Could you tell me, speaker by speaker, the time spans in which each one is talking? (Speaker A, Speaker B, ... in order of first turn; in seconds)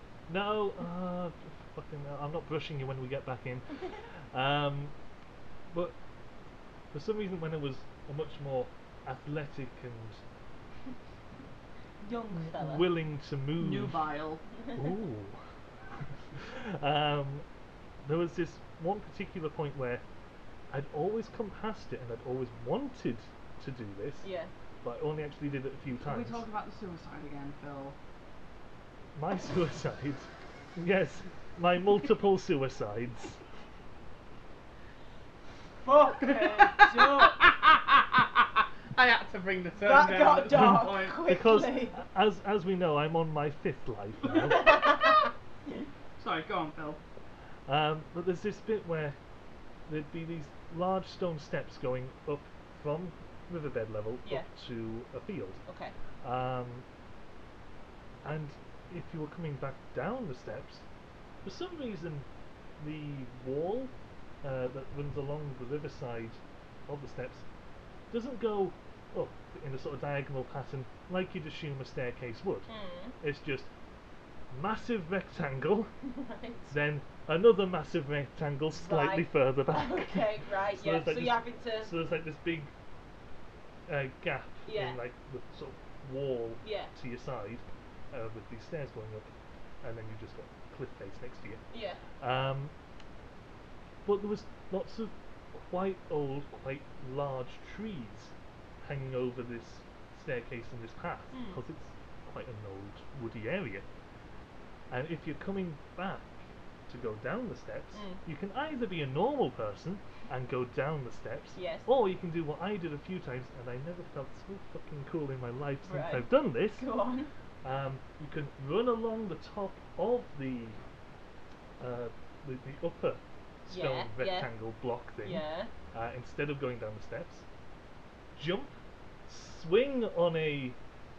Speaker A: 0.3-4.9, 5.7-6.0, 6.9-10.2, 12.3-14.1, 14.8-15.4, 16.4-17.4, 18.0-20.0, 20.7-24.3, 24.8-26.4, 29.1-33.4, 40.5-45.0, 47.7-49.2, 49.9-55.6, 56.2-56.9, 58.2-60.8, 61.4-62.3, 62.8-67.5, 68.1-72.7, 73.2-73.7, 74.5-75.9, 76.7-82.7, 83.9-89.3, 89.8-91.6, 92.2-92.7, 94.0-103.8, 104.9-116.9, 117.6-120.8, 121.8-127.5, 128.4-128.8, 129.3-130.8
Speaker B: 12.0-12.9, 24.2-24.5, 35.8-37.4, 39.8-42.0, 44.3-45.3, 55.7-55.9, 72.7-73.2, 76.0-76.7, 78.8-82.0, 84.7-85.0, 86.6-86.9, 91.7-92.0, 101.3-101.6, 108.0-108.2, 111.6-111.9, 115.9-117.3, 123.7-124.5, 125.2-125.7
Speaker C: 13.6-14.4, 26.1-28.0, 36.2-41.2, 46.2-47.0